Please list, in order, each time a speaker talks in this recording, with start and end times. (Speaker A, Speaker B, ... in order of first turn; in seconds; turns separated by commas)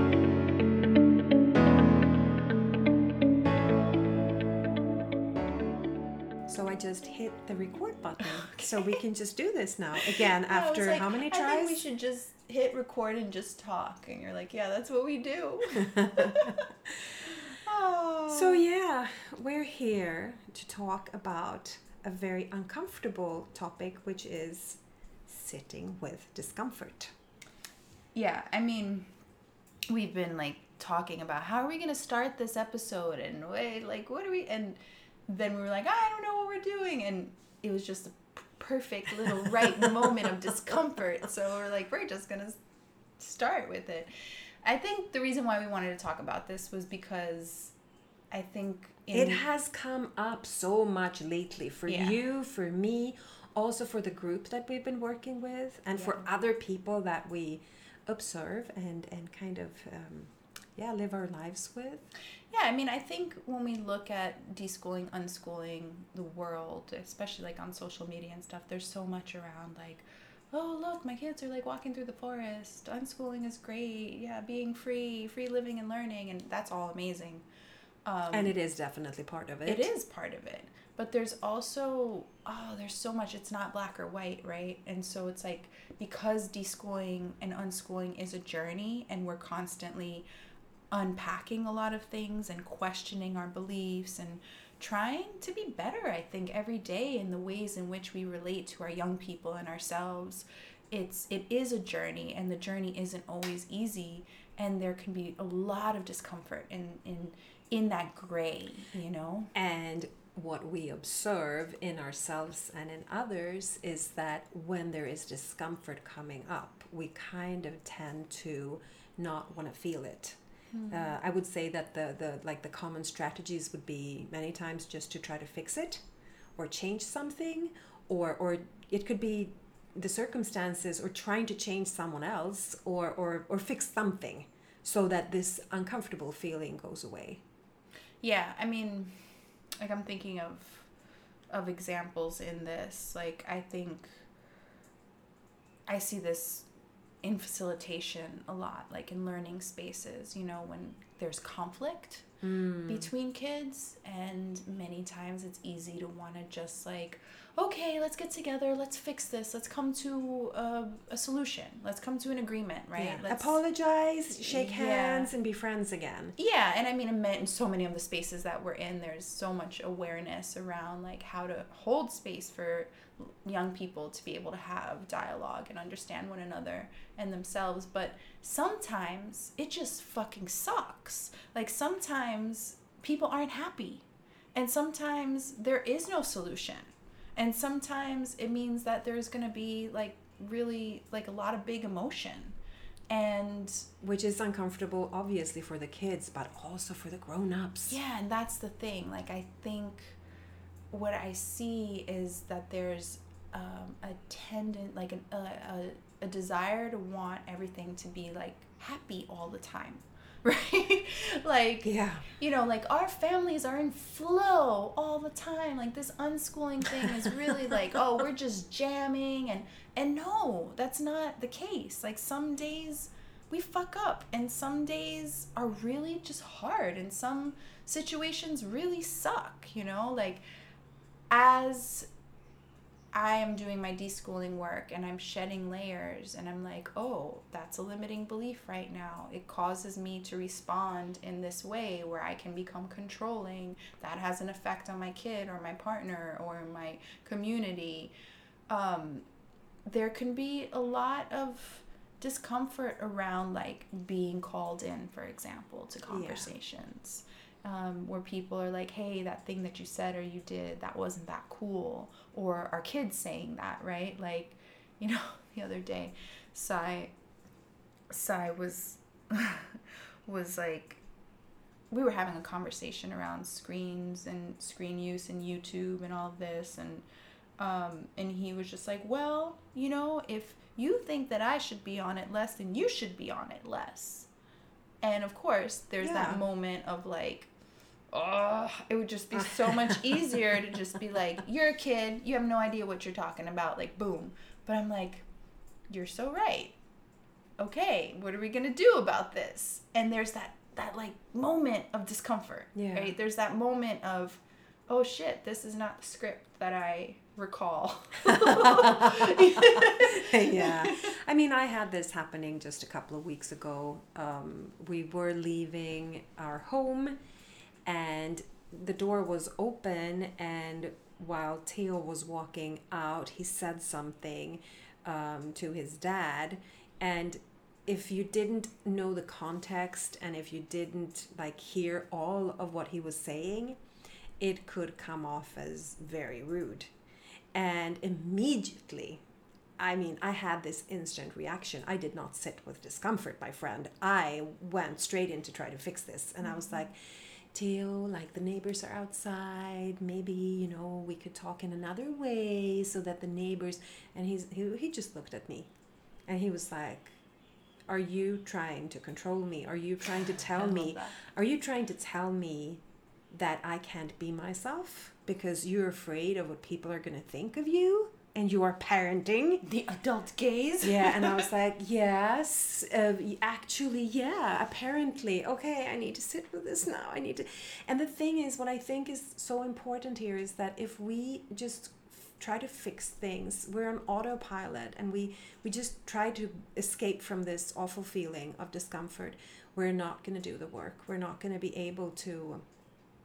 Speaker A: 6.5-11.8, Speaker B: 8.2-9.0, Speaker B: 10.2-18.6, Speaker A: 15.8-16.5, Speaker A: 18.3-27.1, Speaker B: 28.1-29.1, Speaker B: 29.9-42.6, Speaker B: 43.2-44.1, Speaker B: 44.6-47.7, Speaker B: 48.3-49.4, Speaker A: 49.1-62.1, Speaker B: 51.9-52.2, Speaker B: 55.9-56.3, Speaker B: 62.5-77.4, Speaker B: 78.0-78.5, Speaker A: 78.3-79.9, Speaker B: 79.7-90.2, Speaker B: 90.9-109.5, Speaker A: 109.5-120.4, Speaker B: 120.7-121.1, Speaker A: 120.9-126.0, Speaker A: 126.5-137.4, Speaker B: 138.2-139.2, Speaker B: 139.8-140.9, Speaker B: 141.5-144.2, Speaker B: 145.9-146.7, Speaker B: 147.2-152.3, Speaker A: 152.4-153.1, Speaker B: 152.8-163.6, Speaker A: 162.9-166.3, Speaker B: 164.3-165.3, Speaker B: 166.4-192.6, Speaker B: 193.1-193.9, Speaker A: 194.0-197.9, Speaker B: 197.9-200.2, Speaker B: 200.9-230.4, Speaker A: 211.8-212.2, Speaker B: 231.3-232.1, Speaker B: 233.1-248.1, Speaker B: 248.7-249.2, Speaker B: 249.9-267.1, Speaker A: 256.1-256.5, Speaker B: 268.1-271.0, Speaker B: 271.9-277.0, Speaker B: 277.6-284.3, Speaker B: 285.0-287.5, Speaker A: 286.0-286.4, Speaker B: 288.1-295.2, Speaker B: 295.9-296.7, Speaker B: 297.6-311.1, Speaker A: 302.7-303.1, Speaker A: 308.2-317.2, Speaker A: 317.8-333.8, Speaker A: 334.4-336.9, Speaker A: 337.5-339.2, Speaker A: 339.8-347.0, Speaker B: 346.4-346.9, Speaker A: 347.5-355.7, Speaker A: 356.3-357.2, Speaker A: 357.9-369.6, Speaker B: 360.5-361.1, Speaker B: 369.6-371.5, Speaker A: 370.8-392.6